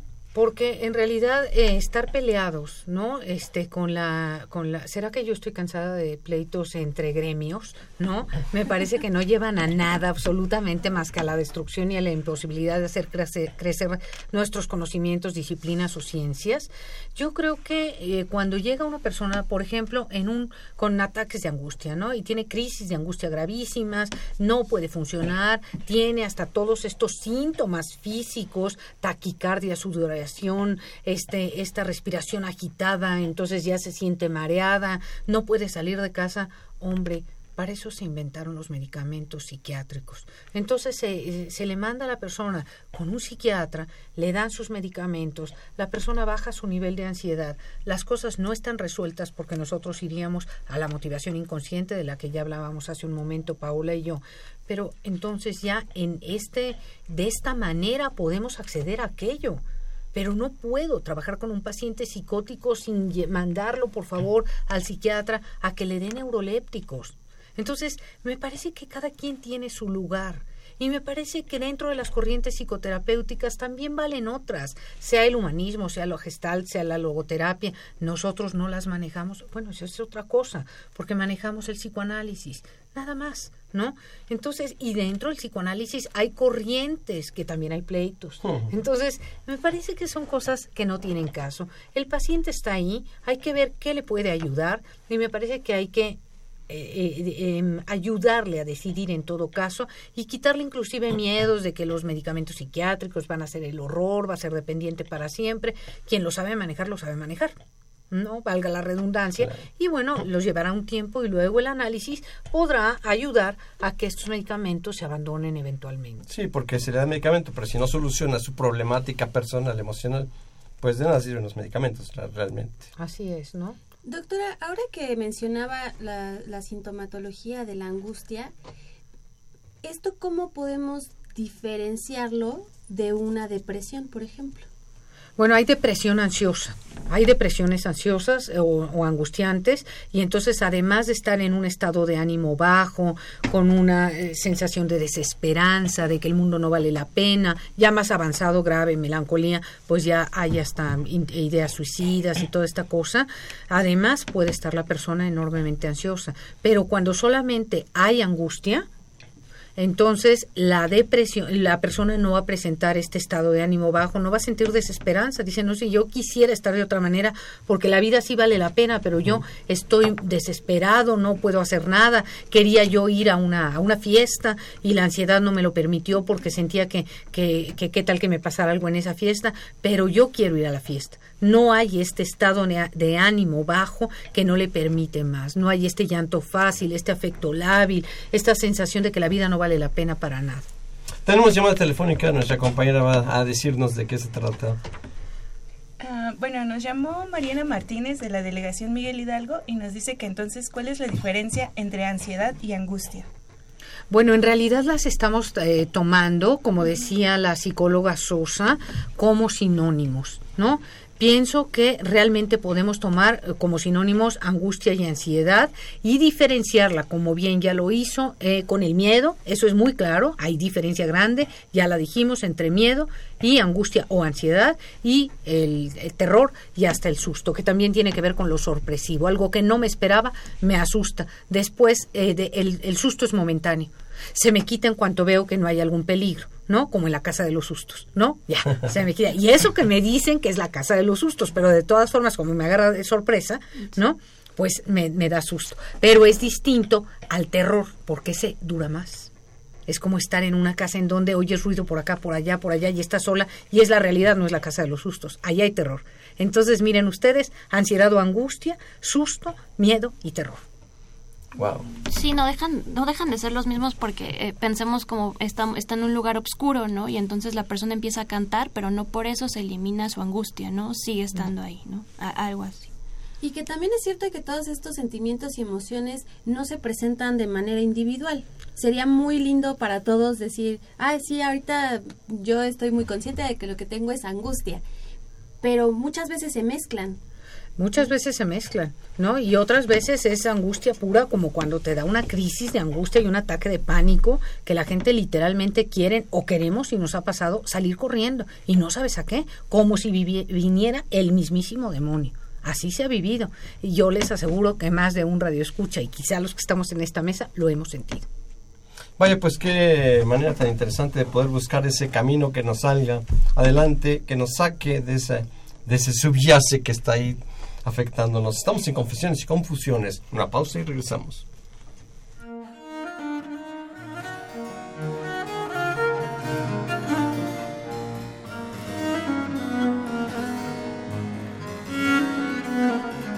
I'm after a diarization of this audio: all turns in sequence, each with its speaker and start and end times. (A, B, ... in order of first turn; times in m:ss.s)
0:00.3-0:59.6 A
1:00.1-1:47.6 A
1:48.1-1:56.3 A
1:56.3-2:00.3 B
2:00.8-2:02.9 B
2:03.0-2:03.8 A
2:04.0-2:08.5 C
2:09.8-2:14.7 C
2:15.4-2:38.9 A
2:39.8-3:10.7 A
3:11.2-3:14.8 B
3:16.0-3:23.3 D
3:24.1-4:09.3 A
4:09.9-4:20.6 A
4:21.6-4:21.9 B
4:22.1-4:32.9 E
4:33.4-4:44.8 C
4:45.6-4:47.2 C
4:47.8-5:08.3 A
5:09.2-5:21.4 B